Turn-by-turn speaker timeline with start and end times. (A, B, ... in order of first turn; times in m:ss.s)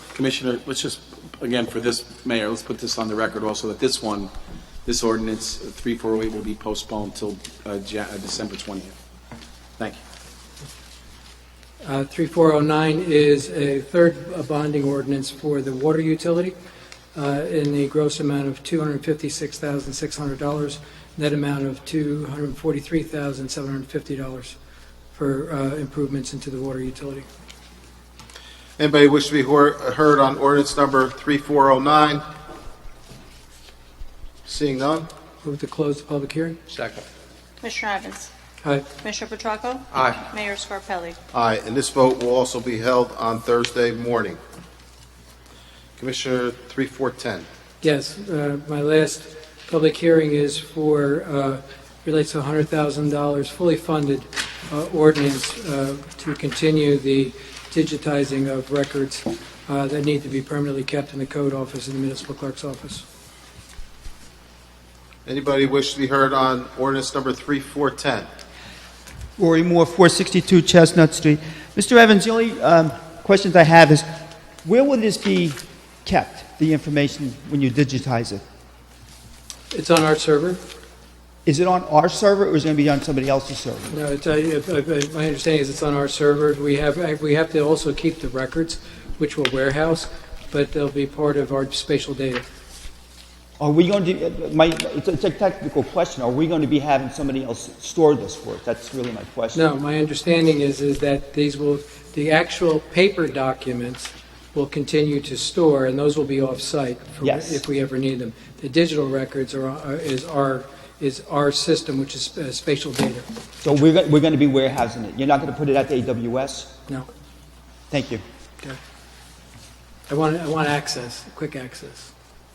0:00.2-0:04.3 A
0:04.9-0:08.9 A
0:11.8-0:16.6 B
0:17.2-0:24.6 B
0:25.1-0:27.3 B
0:28.8-0:32.2 C
0:34.5-0:35.1 C
0:35.4-0:36.6 B
0:36.7-0:37.0 A
0:37.6-0:38.3 D
0:39.0-0:41.2 D
0:39.9-0:40.2 A
0:41.3-0:44.4 C
0:46.0-0:47.5 C
0:47.8-1:03.0 B
1:05.3-1:08.3 C
1:09.4-1:14.1 E
1:14.6-1:18.4 E
1:19.7-1:20.6 B
1:21.5-1:23.9 E
1:23.9-1:32.4 B
1:33.6-1:39.6 E
1:39.5-1:53.3 B
1:47.2-1:47.6 E
1:53.6-1:56.7 E
1:57.9-1:58.2 E
2:00.1-2:02.1 B